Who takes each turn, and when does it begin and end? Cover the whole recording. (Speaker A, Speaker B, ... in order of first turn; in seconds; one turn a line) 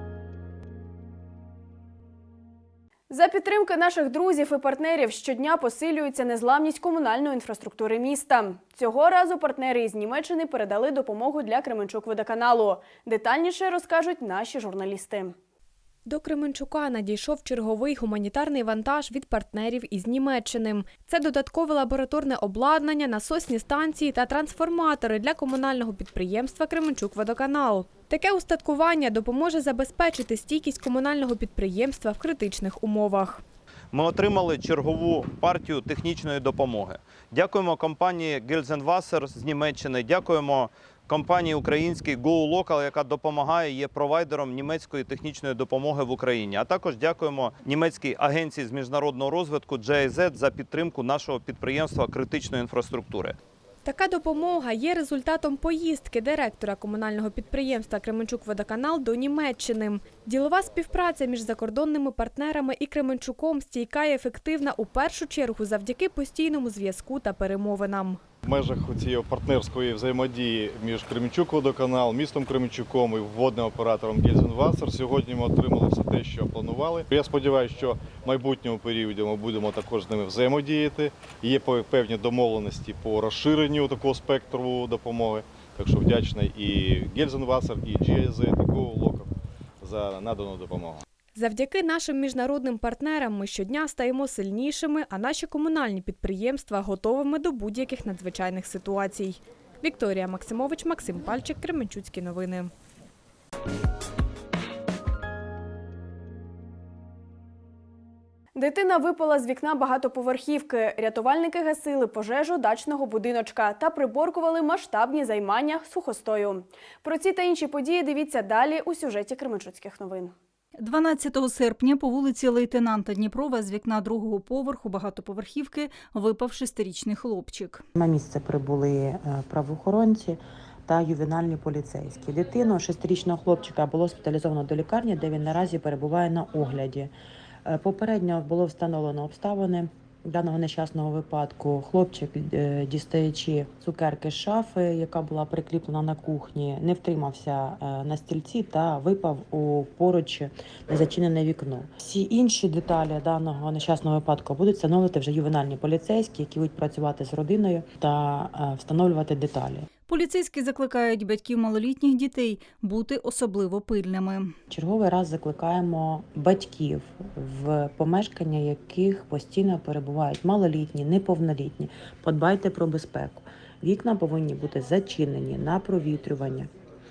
Speaker A: 3.1-15.3
Speaker B: 16.1-33.4
Speaker C: 33.9-53.4
Speaker B: 53.8-68.2
Speaker D: 68.4-89.3
Speaker D: 89.8-91.0
Speaker B: 91.3-102.7
Speaker A: 108.5-120.3
Speaker E: 120.8-127.8
Speaker F: 128.0-137.1
Speaker F: 137.7-159.9
Speaker E: 160.1-164.5
Speaker F: 164.7-176.7